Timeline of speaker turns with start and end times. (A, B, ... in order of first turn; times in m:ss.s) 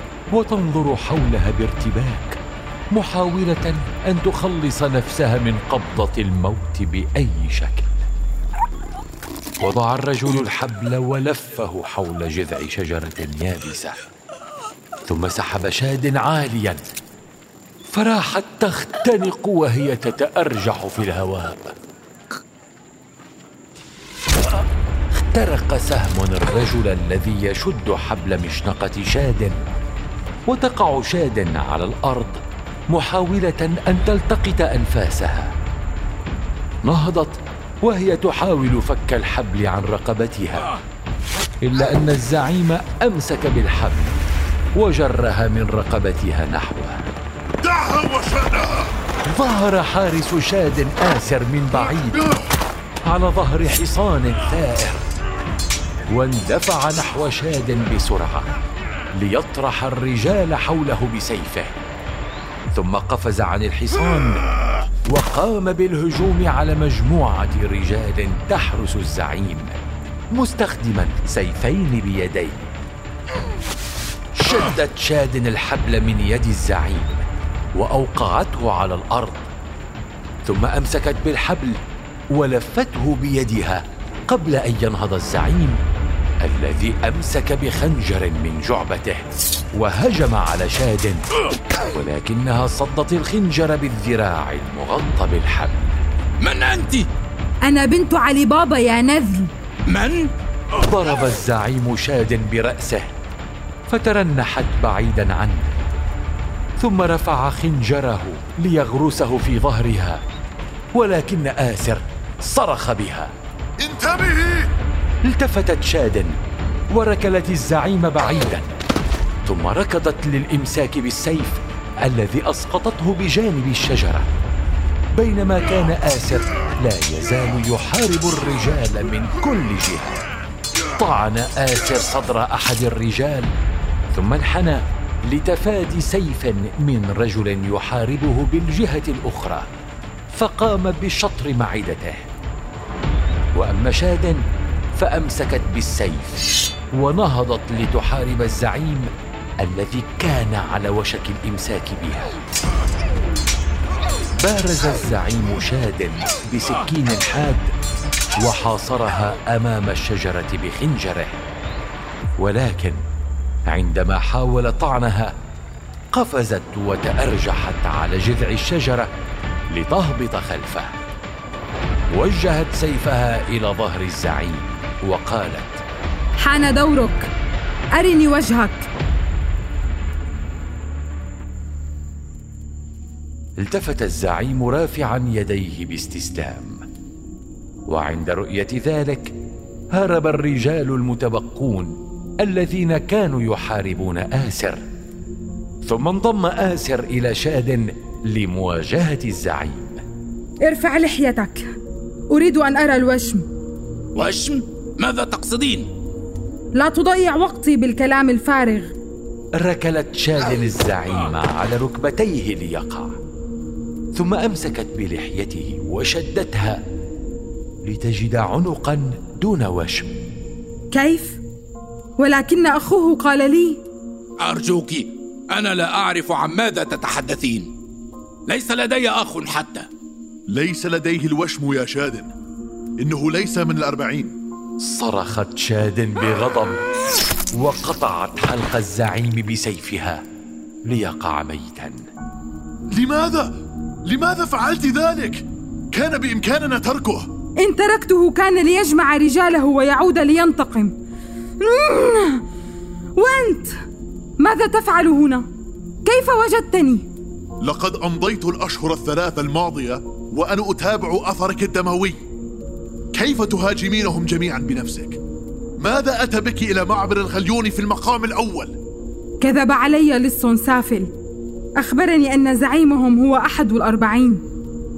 0:00.3-0:02.4 A
0:02.9-0:08.0 A
0:09.6-0:14.0 A
0:15.1-0:16.8 A
0:17.9-0:21.7 A
0:25.2-0:29.6 A
0:30.5-0:35.5 A
0:36.9-0:40.7 A
0:41.6-0:44.2 A
0:44.8-0:47.1 A
0:47.6-0:48.9 B
0:49.3-0:52.3 A
0:53.1-0:55.0 A
0:56.1-0:58.5 A
0:59.2-1:01.8 A
1:02.7-1:04.5 A
1:05.1-1:09.8 A
1:10.3-1:12.7 A
1:14.4-1:17.2 A
1:17.8-1:19.5 A
1:20.5-1:21.8 A
1:22.3-1:25.8 A
1:26.4-1:31.2 A
1:31.9-1:36.0 A
1:36.4-1:37.1 C
1:37.6-1:39.5 D
1:39.9-1:40.3 C
1:40.8-1:43.1 A
1:43.9-1:45.8 A
1:46.8-1:50.2 A
1:50.9-1:53.3 A
1:53.8-1:54.7 B
1:55.3-1:56.4 A
1:56.9-1:58.7 A
1:59.5-2:04.3 A
2:05.2-2:10.2 A
2:11.0-2:13.5 A
2:14.1-2:19.7 A
2:20.4-2:22.3 A
2:23.6-2:24.4 A
2:25.0-2:29.1 A
2:29.6-2:32.4 A
2:34.4-2:37.7 A
2:38.4-2:41.4 A
2:42.4-2:43.0 A
2:43.7-2:45.3 A
2:46.1-2:49.1 A
2:49.7-2:50.9 A
2:52.1-2:55.8 A
2:56.4-2:57.3 D
2:58.0-2:58.9 D
3:03.6-3:06.8 A
3:07.9-3:09.4 A
3:09.9-3:14.8 A
3:15.9-3:20.0 A
3:20.6-3:21.7 D
3:22.3-3:23.4 D
3:24.2-3:25.9 C
3:26.8-3:28.9 D
3:29.6-3:33.1 A
3:34.2-3:36.8 A
3:37.8-3:40.1 A
3:40.9-3:41.4 D
3:42.2-3:43.8 D
3:44.4-3:47.7 C
3:48.5-3:49.9 C
3:50.5-3:52.3 B
3:53.0-3:54.4 B
3:54.8-3:56.8 A
3:57.6-4:00.2 A
4:00.9-4:02.0 A
4:02.9-4:03.5 B
4:04.0-4:07.3 B
4:07.6-4:10.9 D
4:11.6-4:12.4 D
4:13.2-4:13.8 D
4:14.4-4:15.5 D
4:16.0-4:17.1 D
4:17.6-4:22.2 B
4:23.1-4:25.2 B
4:25.8-4:28.8 B
4:29.4-4:31.1 D
4:31.8-4:34.4 D